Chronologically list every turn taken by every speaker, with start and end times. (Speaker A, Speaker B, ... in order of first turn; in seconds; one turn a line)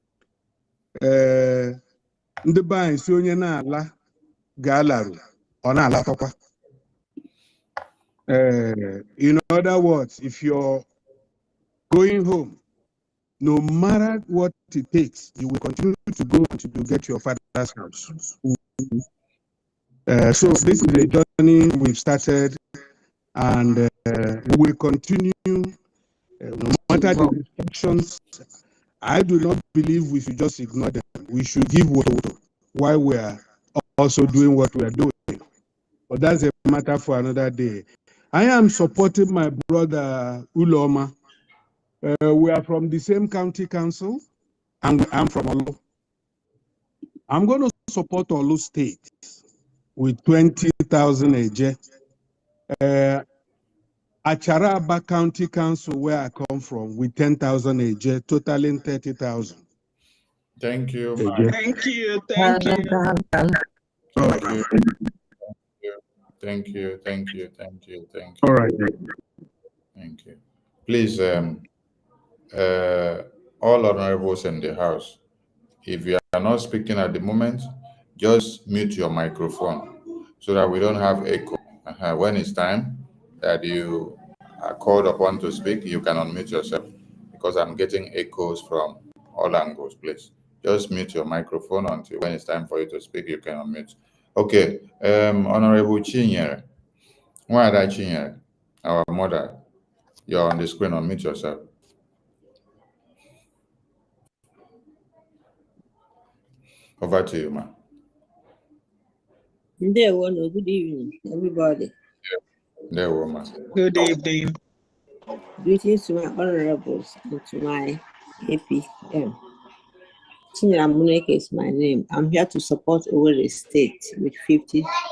Speaker A: 1.0-1.8
Speaker A: 2.4-3.9
Speaker A: 4.6-6.3
Speaker A: 8.3-10.8
Speaker A: 11.9-12.6
Speaker A: 13.4-18.3
Speaker A: 20.1-22.6
Speaker A: 23.3-25.7
Speaker A: 26.4-28.2
Speaker A: 29.0-35.4
Speaker A: 36.1-41.1
Speaker A: 42.0-44.2
Speaker A: 44.8-45.8
Speaker A: 47.3-49.4
Speaker A: 50.0-51.8
Speaker A: 52.7-53.2
Speaker A: 54.2-59.6
Speaker B: 60.6-61.6
Speaker A: 61.2-61.6
Speaker C: 61.4-63.0
Speaker D: 62.4-63.2
Speaker A: 64.2-64.6
Speaker B: 64.2-64.7
Speaker B: 65.8-68.5
Speaker A: 68.4-68.9
Speaker B: 70.0-71.6
Speaker B: 72.5-75.2
Speaker B: 75.8-96.6
Speaker B: 97.5-99.6
Speaker B: 100.3-101.7
Speaker B: 107.0-107.7
Speaker D: 109.8-111.9
Speaker B: 112.9-113.6
Speaker C: 113.7-114.5
Speaker D: 115.6-119.3
Speaker D: 120.5-124.8